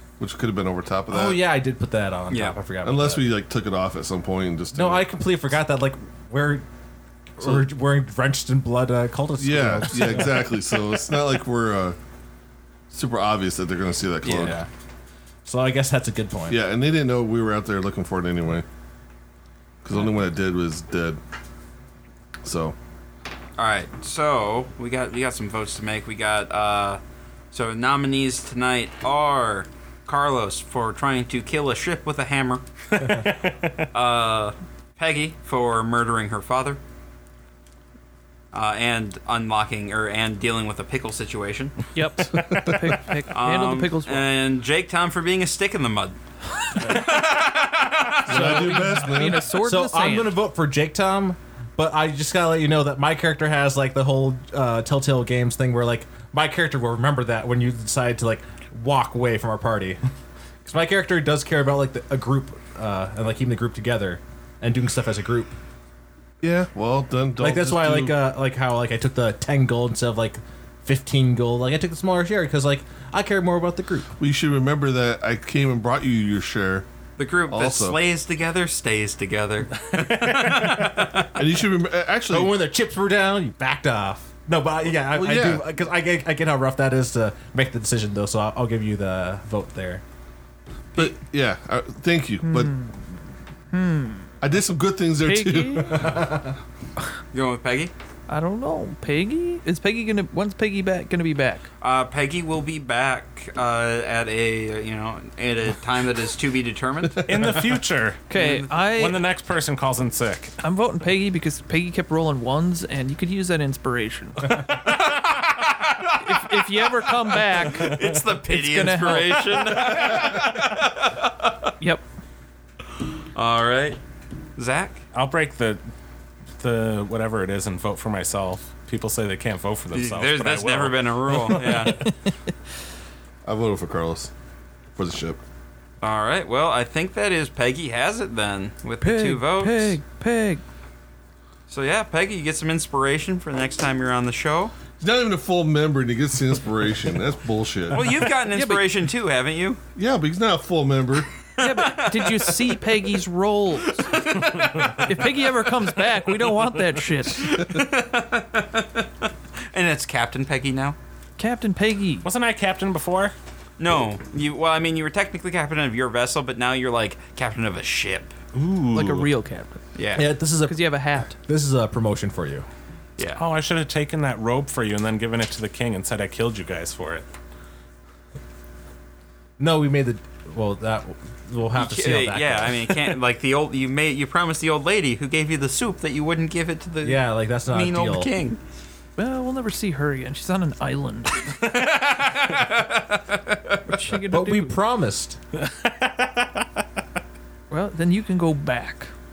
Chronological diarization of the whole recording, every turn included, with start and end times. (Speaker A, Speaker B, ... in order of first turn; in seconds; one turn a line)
Speaker A: 0.2-1.4
Speaker B: 1.1-3.3
Speaker C: 2.3-2.6
Speaker A: 2.8-5.1
Speaker B: 4.7-6.7
Speaker B: 7.4-10.6
Speaker A: 7.4-7.7
Speaker A: 9.4-12.0
Speaker A: 12.9-14.6
Speaker C: 14.2-14.6
Speaker B: 14.3-14.7
Speaker B: 15.4-16.6
Speaker A: 16.5-18.7
Speaker A: 19.8-21.2
Speaker A: 22.4-22.8
Speaker C: 23.6-27.0
Speaker C: 27.5-32.6
Speaker D: 32.9-33.9
Speaker C: 33.9-36.8
Speaker C: 38.5-41.8
Speaker E: 42.0-44.3
Speaker A: 42.4-42.9
Speaker C: 43.3-49.0
Speaker A: 48.3-49.5
Speaker E: 48.3-50.4
Speaker B: 49.6-60.0
Speaker B: 60.6-65.5
Speaker A: 66.4-68.2
Speaker B: 67.4-74.1
Speaker A: 74.2-76.9
Speaker C: 77.2-81.3
Speaker A: 77.5-78.0
Speaker D: 80.0-81.1
Speaker A: 81.3-82.6
Speaker B: 82.3-90.0
Speaker A: 85.1-85.7
Speaker A: 91.0-92.7
Speaker E: 92.4-93.0
Speaker E: 93.7-94.3
Speaker A: 94.4-96.3
Speaker E: 95.2-96.1
Speaker B: 95.9-96.5
Speaker C: 97.3-97.9
Speaker E: 98.3-101.7
Speaker C: 101.8-107.3
Speaker D: 107.3-108.3
Speaker E: 108.3-109.2
Speaker C: 108.3-108.8
Speaker D: 108.9-110.5
Speaker E: 110.6-114.9
Speaker C: 114.6-121.7
Speaker E: 116.1-120.3
Speaker D: 117.9-118.2
Speaker C: 123.3-124.0
Speaker C: 124.6-125.0
Speaker D: 125.1-125.8
Speaker D: 126.6-131.8
Speaker C: 129.9-132.1
Speaker E: 131.6-132.1
Speaker A: 133.5-134.3
Speaker A: 134.9-135.4
Speaker C: 136.0-140.0
Speaker E: 139.0-140.6
Speaker C: 141.7-144.7
Speaker A: 145.0-148.1
Speaker C: 147.9-149.8
Speaker E: 148.5-148.8
Speaker A: 150.0-151.4
Speaker C: 151.6-152.9
Speaker E: 151.6-154.1
Speaker C: 153.8-155.5
Speaker E: 154.8-157.7
Speaker C: 157.3-161.0
Speaker E: 161.4-162.3
Speaker D: 162.2-163.3
Speaker C: 163.8-168.3
Speaker D: 168.5-169.3
Speaker E: 168.9-169.8
Speaker C: 170.0-170.2
Speaker B: 170.2-172.7
Speaker E: 170.6-171.4
Speaker C: 173.2-173.4
Speaker D: 173.3-177.3
Speaker B: 179.6-183.2
Speaker C: 181.8-188.6
Speaker B: 187.0-188.3
Speaker E: 189.2-191.4
Speaker C: 191.5-194.1
Speaker E: 193.9-194.8
Speaker B: 194.3-195.4
Speaker D: 195.6-196.5
Speaker E: 197.7-199.1